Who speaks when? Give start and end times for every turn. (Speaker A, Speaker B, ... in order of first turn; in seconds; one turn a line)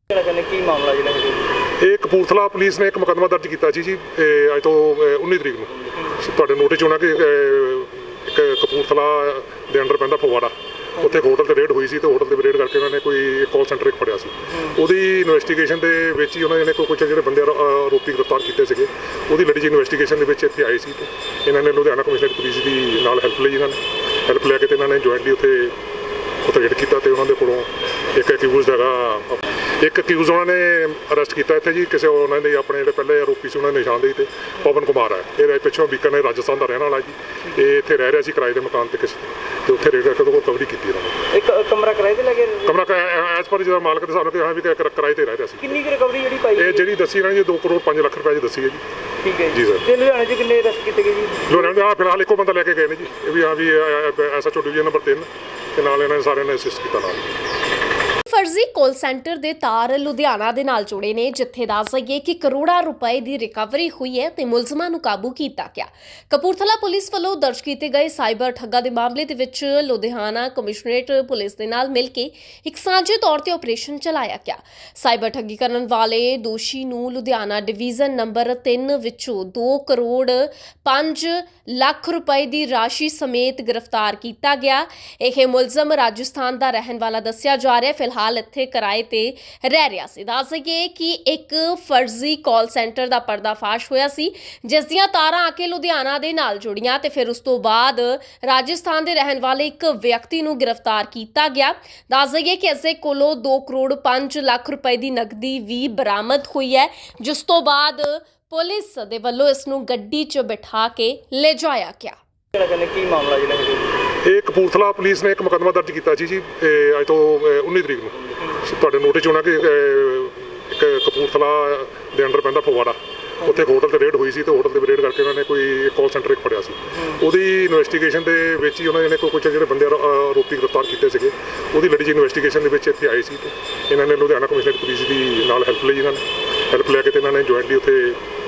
Speaker A: 0.1-1.6
Speaker B: 1.8-25.8
Speaker B: 26.4-41.3
Speaker A: 41.3-42.7
Speaker B: 42.6-45.8
Speaker A: 45.6-46.9
Speaker B: 46.6-48.8
Speaker A: 49.2-51.6
Speaker B: 49.5-49.9
Speaker B: 51.5-57.4
Speaker C: 58.3-112.2
Speaker A: 112.5-114.0
Speaker B: 114.2-138.2